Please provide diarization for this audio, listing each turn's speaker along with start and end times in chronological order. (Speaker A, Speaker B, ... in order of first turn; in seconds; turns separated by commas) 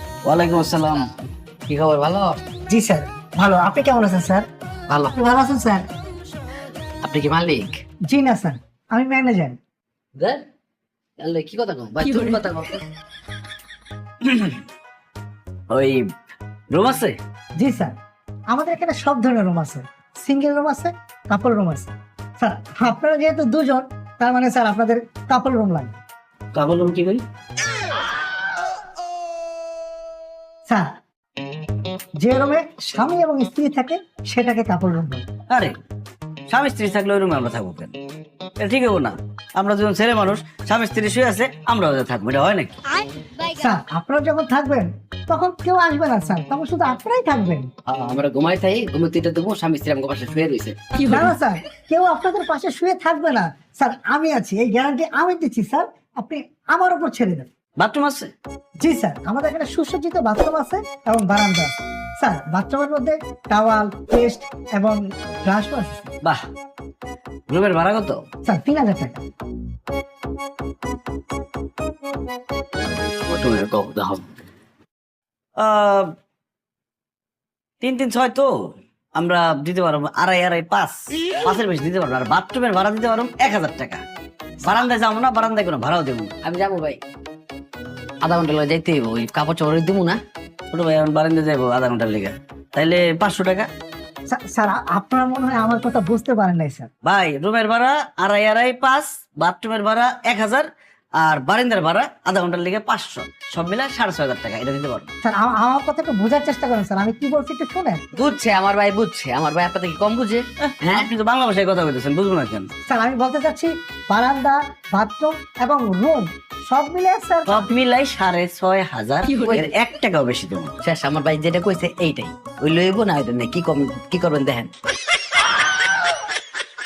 Speaker A: 0.2-1.1, Speaker B: 1.7-2.5, Speaker C: 2.7-4.5, Speaker C: 5.1-5.8, Speaker B: 7.0-7.8, Speaker C: 8.1-9.6, Speaker B: 10.2-10.4, Speaker B: 11.2-12.8, Speaker A: 14.2-14.6, Speaker A: 15.7-16.0, Speaker A: 16.7-17.1, Speaker C: 17.6-17.9, Speaker C: 18.5-25.9, Speaker A: 26.6-27.2, Speaker C: 30.7-30.9, Speaker C: 32.2-35.2, Speaker A: 36.5-37.9, Speaker A: 38.6-42.7, Speaker C: 43.5-47.7, Speaker B: 47.9-51.0, Speaker C: 51.0-57.5, Speaker A: 57.8-58.3, Speaker C: 58.8-66.1, Speaker A: 67.5-68.2, Speaker C: 68.5-69.2, Speaker B: 73.3-74.2, Speaker A: 75.6-76.1, Speaker A: 77.8-78.5, Speaker A: 79.2-84.0, Speaker A: 84.6-86.3, Speaker B: 86.4-87.0, Speaker B: 88.2-90.2, Speaker A: 90.7-93.7, Speaker C: 94.3-96.9, Speaker A: 97.0-100.7, Speaker A: 101.2-105.1, Speaker C: 105.2-108.0, Speaker B: 108.1-111.1, Speaker A: 110.7-112.7, Speaker C: 112.9-117.7, Speaker A: 117.5-120.7, Speaker B: 119.2-119.7, Speaker B: 120.8-124.7